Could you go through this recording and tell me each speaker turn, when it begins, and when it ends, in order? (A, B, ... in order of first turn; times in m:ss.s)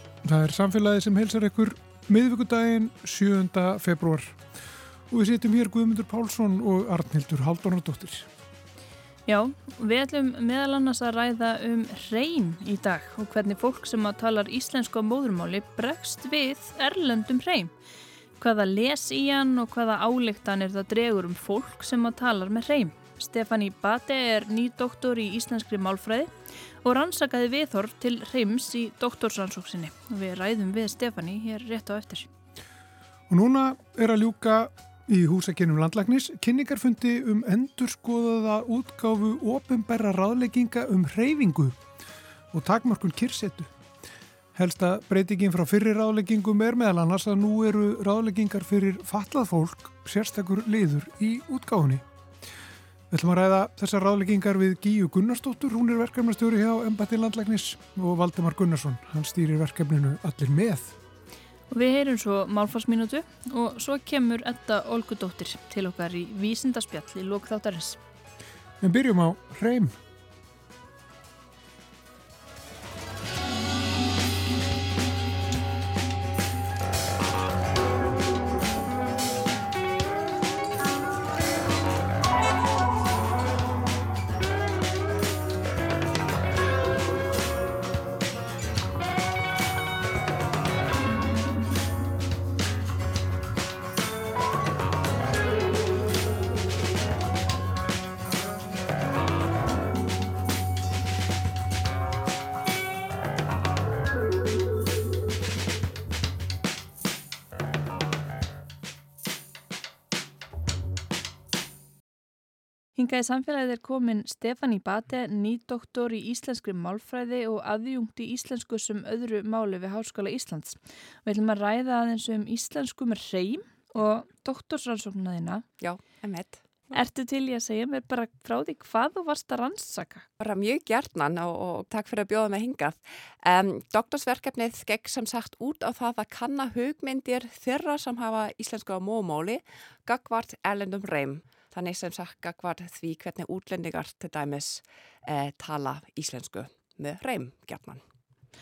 0:00.2-0:04.4 A
0:05.1-0:08.3 A
0:09.3-0:17.7 B
0:18.4-0:26.3 B
0:26.8-0:32.3 B
0:33.3-0:41.8 A
0:42.5-0:43.7 A
0:44.5-0:52.0 A
0:53.1-1:01.0 A
1:01.7-1:08.0 B
1:08.8-1:09.9 A
1:53.0-2:05.6 B
2:05.8-2:06.6 C
2:06.9-2:10.2 B
2:10.4-2:28.0 C